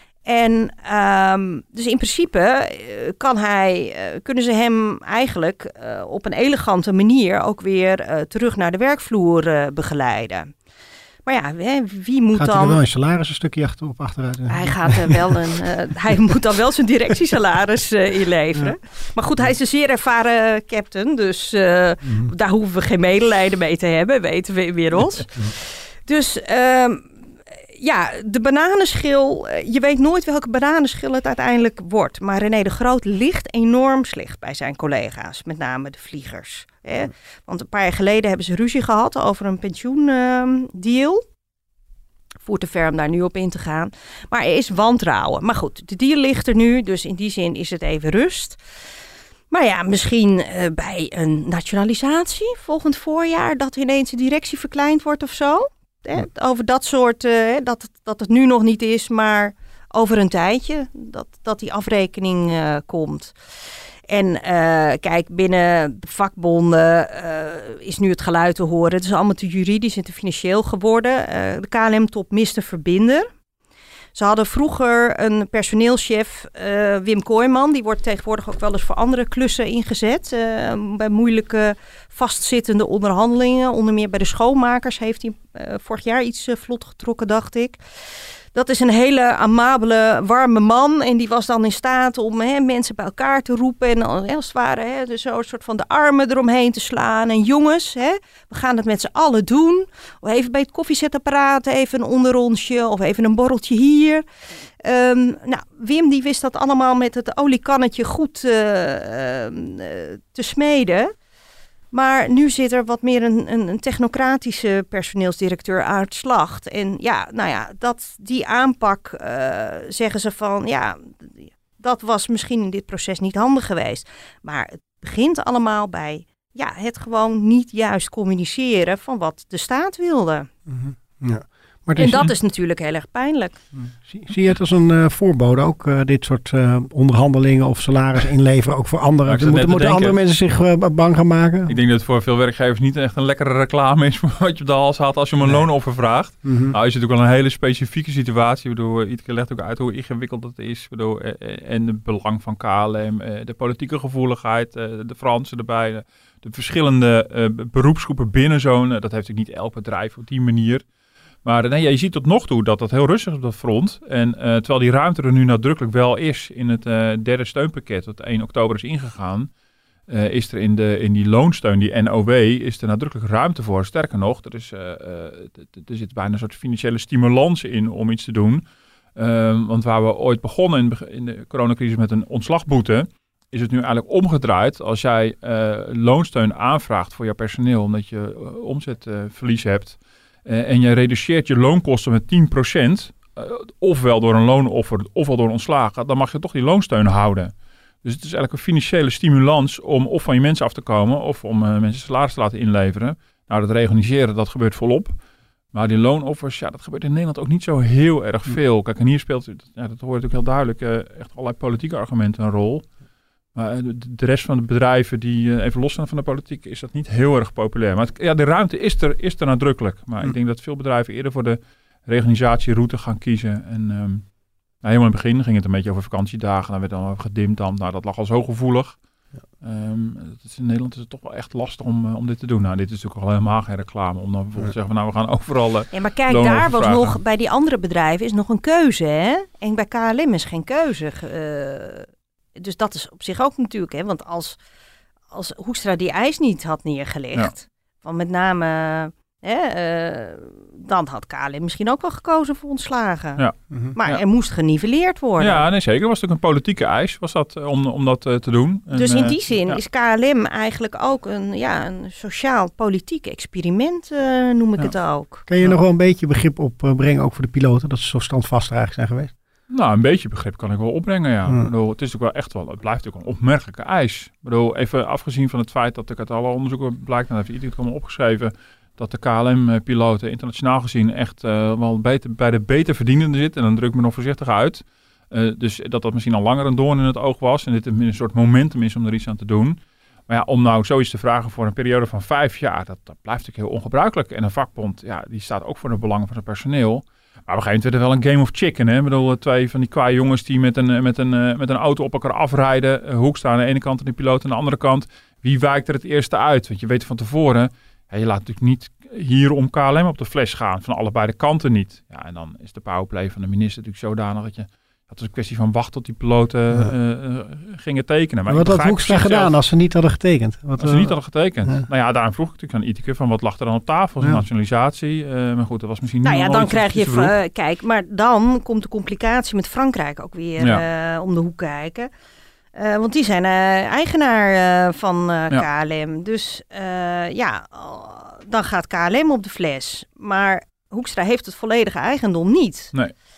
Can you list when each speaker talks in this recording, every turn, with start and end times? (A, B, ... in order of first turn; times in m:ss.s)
0:00.2-0:10.5 A
0:11.2-0:12.8 A
0:12.4-0:16.2 B
0:14.5-0:27.1 A
0:22.0-0:22.3 B
0:27.8-0:41.2 A
0:42.4-0:48.6 A
0:49.5-1:03.3 A
1:04.1-1:13.3 A
1:14.1-1:27.8 A
1:28.5-1:44.2 A
1:44.8-1:51.1 A
1:51.9-2:10.5 A
2:10.7-2:12.3 B
2:12.0-2:13.6 A
2:14.1-2:21.7 B
2:19.2-2:20.2 C
2:21.7-2:40.8 C
2:26.4-2:26.7 B
2:41.4-2:49.5 C
2:50.1-2:58.6 C
2:59.2-3:17.5 C
3:18.0-3:25.1 C
3:25.7-3:32.9 C
3:33.5-3:44.2 C
3:44.8-3:49.0 C
3:49.6-3:57.2 C
3:55.9-4:04.6 A
4:05.3-4:13.4 A
4:13.4-4:14.2 C
4:13.9-4:15.6 A
4:15.4-4:19.8 C
4:18.9-4:25.4 A
4:25.5-4:29.3 B
4:29.7-4:49.8 C
4:50.3-5:19.5 C
5:18.5-5:21.1 B
5:20.8-5:27.3 C
5:26.2-5:32.1 A
5:32.7-5:42.9 A